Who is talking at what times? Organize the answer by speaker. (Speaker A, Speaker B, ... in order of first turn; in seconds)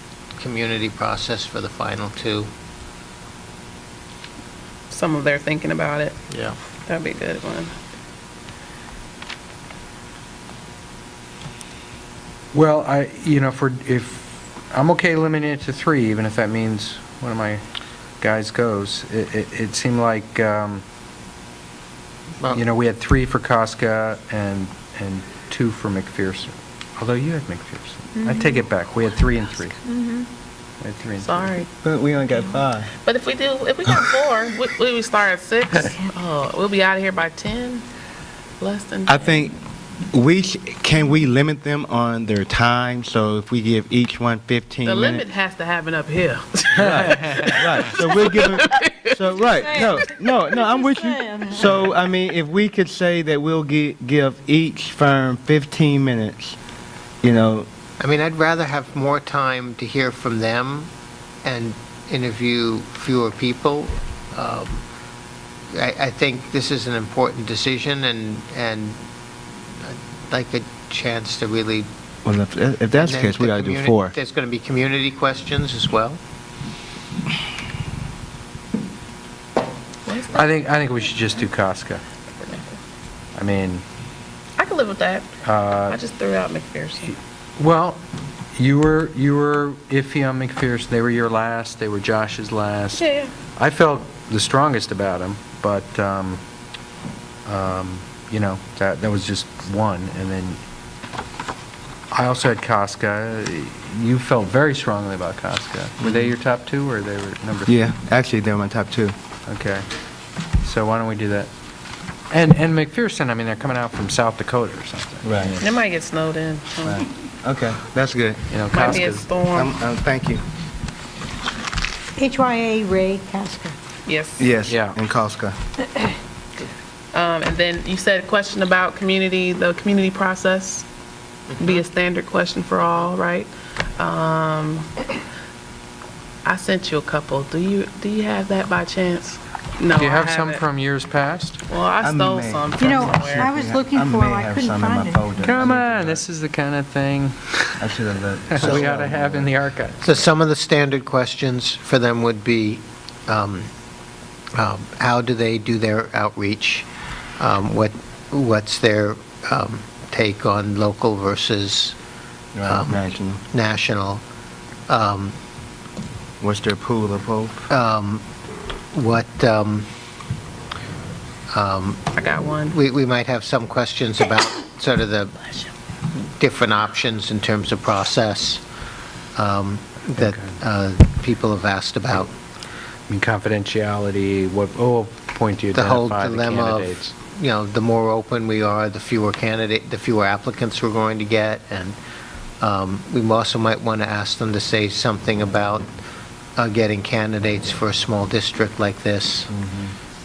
Speaker A: 0.4-2.5, 6.3-6.5, 58.0-60.9, 61.4-64.8, 65.7-69.0, 69.8-71.9, 73.0-76.2, 148.6-148.8, 150.0-153.7, 154.5-156.9, 157.4-161.9, 162.7-164.2, 164.9-165.3, 167.7-168.2, 168.9-169.9, 171.5-172.0, 172.7-175.3, 176.1-178.6, 179.3-182.3, 185.7-192.0, 192.6-195.9, 196.6-199.5
Speaker B: 4.9-6.2, 6.8-7.7, 31.2-31.7, 33.0-37.8, 38.6-39.4, 44.8-49.1, 80.0-80.4, 82.4-82.8, 84.6-85.3, 85.9-87.1, 93.0-93.3, 115.6-117.1, 118.7-119.7, 124.0-124.5, 127.1-130.8, 131.6-135.0, 136.4-140.6, 141.7-143.5, 172.1-172.8
Speaker C: 12.5-17.6, 18.2-20.8, 22.5-29.8, 30.8-31.5, 46.7-47.5, 80.3-82.0, 83.3-83.8, 85.4-86.0, 87.1-88.0, 88.5-96.4, 97.5-100.6, 102.1-107.8, 109.5-109.9, 110.6-111.5, 112.3-115.8, 118.5-119.2, 124.7-125.0, 139.9-141.6, 145.4-147.9, 148.5-150.0, 180.2-180.6, 183.1-187.1
Speaker D: 28.2-28.6, 29.8-30.3, 49.5-51.6, 122.2-123.8, 142.8-145.7
Speaker E: 31.8-32.9, 39.1-39.5, 40.1-45.2, 46.8-56.6, 57.2-57.7, 72.2-74.1, 106.0-106.3, 107.7-109.2, 115.2-115.5, 116.8-118.4, 119.5-120.4, 124.4-125.5, 142.0-146.2, 147.8-149.5, 162.5-163.4, 166.4-167.7, 199.5-199.9